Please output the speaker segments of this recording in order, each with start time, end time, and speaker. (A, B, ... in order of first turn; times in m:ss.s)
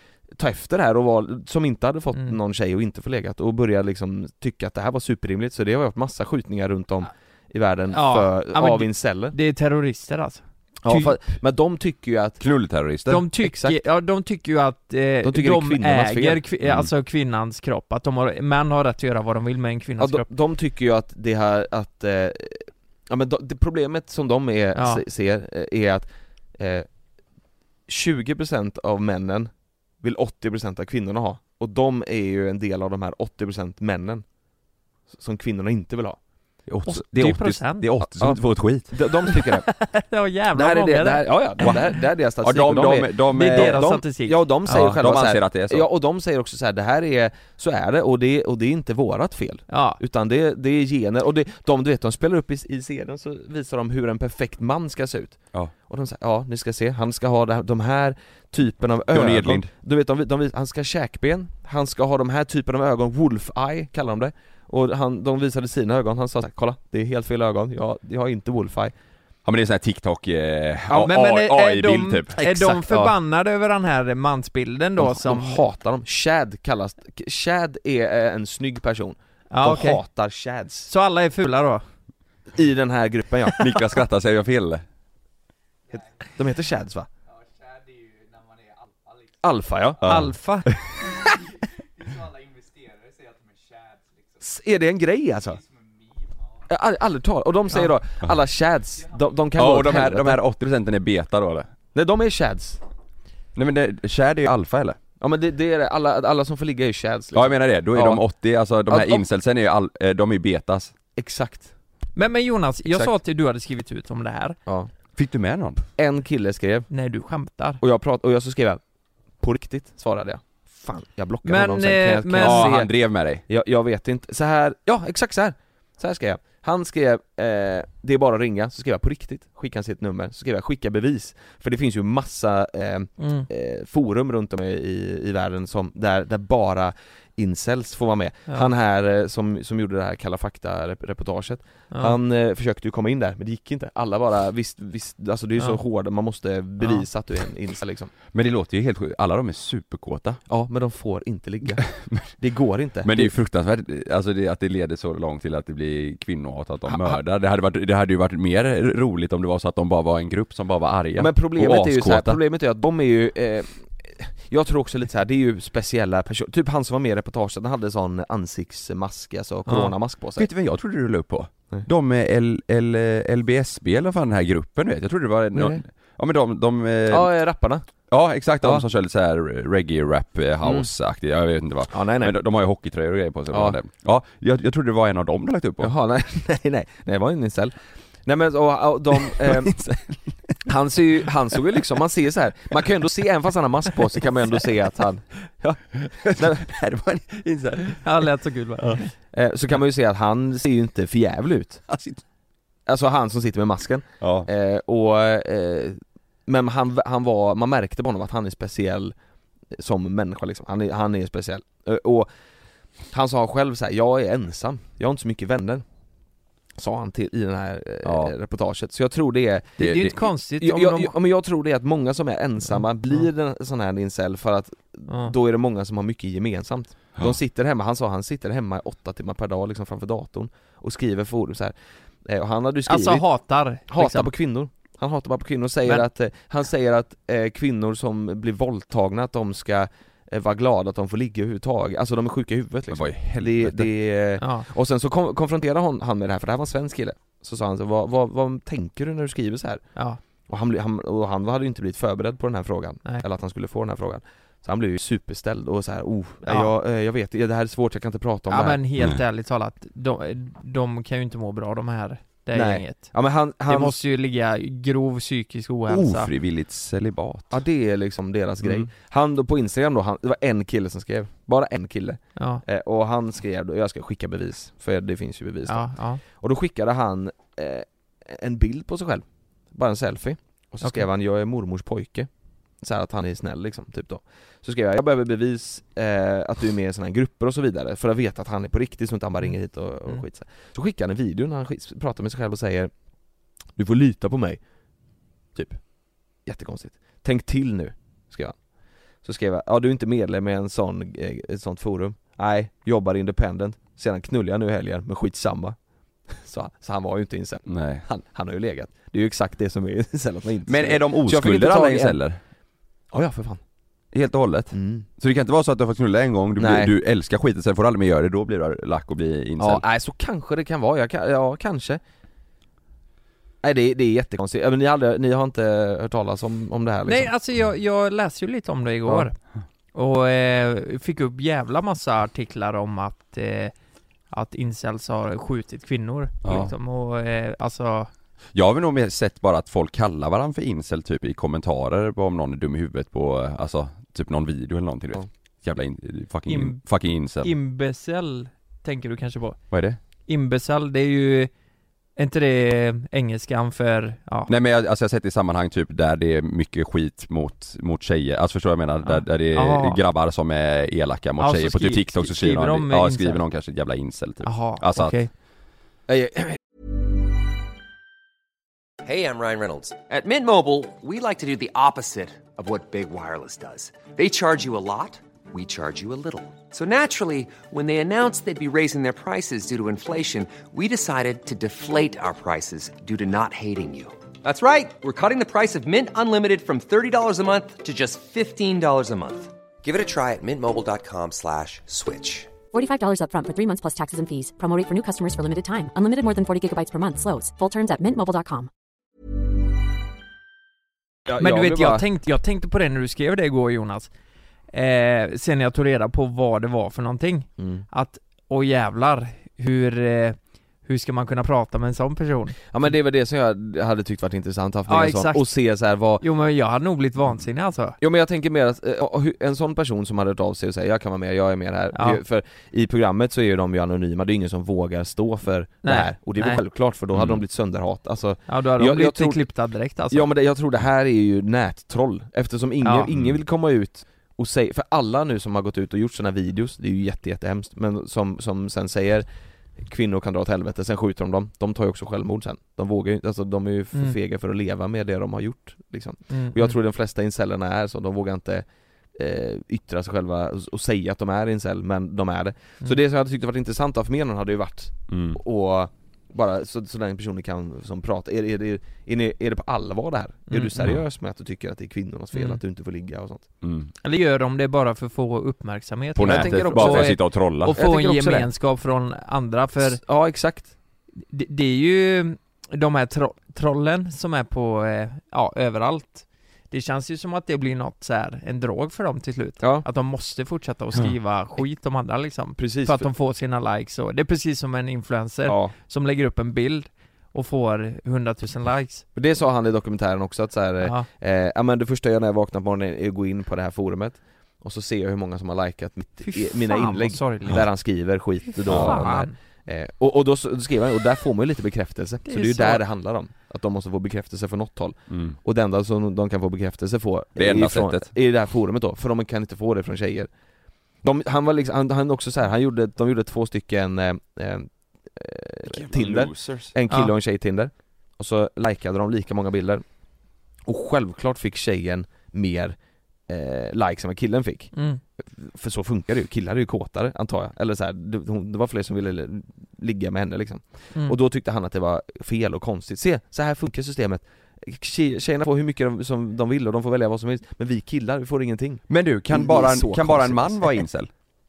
0:00.4-0:09.3 A
0:07.9-0:11.1 B
0:10.8-0:12.4 A
0:12.4-0:13.2 C
0:13.1-0:20.2 B
0:13.4-0:13.8 A
0:15.2-0:16.4 A
0:16.6-0:16.9 C
0:20.0-0:26.9 A
0:24.8-0:25.0 B
0:27.9-0:29.5 A
0:30.0-0:34.2 A
0:35.1-0:36.2 A
0:36.7-0:38.9 C
0:36.9-0:37.9 B
0:38.0-0:39.7 A
0:39.3-0:41.7 B
0:40.5-1:08.9 A
0:41.6-0:44.0 C
0:43.3-0:44.8 B
0:44.6-0:45.9 C
0:49.7-0:50.0 B
0:59.1-0:59.7 C
1:09.4-1:12.4 C
1:11.0-1:15.6 B
1:12.4-1:13.1 A
1:15.0-1:20.9 A
1:19.5-1:20.0 B
1:20.9-1:21.8 B
1:22.5-1:23.6 A
1:23.5-1:24.8 C
1:25.9-1:27.1 A
1:29.4-1:30.1 A
1:30.0-1:30.8 C
1:30.0-1:30.7 B
1:34.4-1:35.6 A
1:36.7-1:40.4 A
1:39.5-1:41.7 C
1:41.9-1:42.8 A
1:43.5-1:45.0 C
1:45.2-1:48.2 A
1:47.3-1:50.9 C
1:48.9-1:49.2 A
1:51.2-1:51.7 A
1:52.2-1:54.6 B
1:55.2-1:55.8 C
1:56.0-1:56.9 A
1:56.9-1:57.8 B
1:57.8-1:58.8 A
1:59.4-2:28.1 A
2:01.4-2:02.7 B
2:02.4-2:03.4 C
2:13.2-2:13.5 B
2:28.3-2:30.4 C
2:30.4-2:33.3 A
2:31.8-2:32.3 C
2:33.0-2:42.4 C
2:36.9-2:37.2 A
2:41.2-2:50.5 A
2:49.7-2:49.9 B
2:50.4-2:57.3 C
2:55.5-2:55.8 A
2:57.1-2:57.8 A
2:58.1-3:05.9 C
3:00.6-3:00.9 A
3:01.9-3:02.4 A
3:03.5-3:03.8 A
3:05.8-3:07.7 A
3:08.2-3:09.7 A
3:09.2-3:10.6 C
3:10.6-3:16.7 A
3:16.0-3:18.0 C
3:18.0-3:19.1 B
3:19.3-3:21.8 A
3:21.9-3:22.2 C
3:22.8-3:29.1 A
3:24.2-3:24.5 C
3:29.7-3:32.3 A
3:33.1-3:35.8 A
3:36.8-3:51.7 A
3:38.0-3:38.3 C
3:39.8-3:40.1 C
3:39.8-3:41.1 B
3:42.8-3:43.2 B
3:45.1-3:45.3 B
3:52.2-3:53.2 A
3:52.9-3:54.3 B
3:53.9-4:09.8 A
4:02.9-4:03.9 C
4:04.4-4:04.7 B
4:10.4-4:18.8 A
4:16.4-4:16.7 B
4:18.5-4:26.3 B
4:22.5-4:24.0 A
4:25.9-4:27.6 C
4:27.5-4:42.3 A
4:28.6-4:28.9 C
4:32.4-4:32.6 B
4:35.7-4:36.2 B
4:42.8-4:52.9 A
4:53.7-4:54.6 A
4:55.5-4:55.8 A
4:56.4-4:58.6 A
4:59.2-5:05.8 A
5:06.3-5:12.2 A
5:07.6-5:08.0 C
5:10.6-5:12.4 C
5:13.1-5:13.6 A
5:14.1-5:19.8 C
5:14.7-5:15.0 A
5:16.6-5:16.9 A
5:19.6-5:22.0 A
5:23.6-5:27.3 A
5:27.1-5:29.3 B
5:29.9-5:33.7 B
5:34.3-5:38.1 B
5:36.4-5:36.7 C
5:38.5-5:47.5 C
5:46.5-5:46.8 B
5:47.4-5:49.6 B
5:49.7-5:50.0 C
5:50.3-5:51.5 B
5:52.2-5:54.5 B
5:54.5-6:05.2 C
5:59.0-6:00.0 B
6:01.4-6:03.4 B
6:04.4-6:05.3 B
6:06.1-6:06.6 A
6:09.0-6:32.5 D
6:32.7-6:38.7 E
6:41.3-6:42.0 A
6:41.4-6:44.1 B
6:44.7-6:52.6 B
6:47.6-6:47.8 A
6:52.7-6:56.2 A
6:54.9-6:55.6 B
6:56.2-6:58.0 B
6:58.0-7:09.4 A
7:01.9-7:02.2 B
7:05.8-7:06.6 B
7:07.1-7:07.4 C
7:08.5-7:10.3 B
7:10.1-7:19.2 A
7:12.8-7:13.1 B
7:13.1-7:13.4 C
7:19.8-7:43.4 A
7:26.3-7:26.8 B
7:35.1-7:35.4 C
7:40.5-7:40.9 B
7:42.3-7:42.6 B
7:43.6-7:43.9 C
7:44.0-7:50.0 B
7:46.1-7:47.8 C
7:46.2-7:47.2 A
7:47.7-7:48.5 A
7:49.8-7:50.7 A
7:51.3-8:09.0 B
8:02.6-8:03.1 A
8:05.4-8:05.7 A
8:09.1-8:30.3 A
8:10.8-8:11.1 B
8:16.2-8:17.7 B
8:18.6-8:19.3 B
8:18.7-8:19.1 C
8:22.3-8:22.8 B
8:25.1-8:25.4 C
8:27.4-8:28.1 C
8:31.0-8:39.8 A
8:35.6-8:36.7 C
8:40.6-8:42.8 A
8:43.3-9:00.8 A
8:44.7-8:45.0 B
8:58.9-9:01.1 C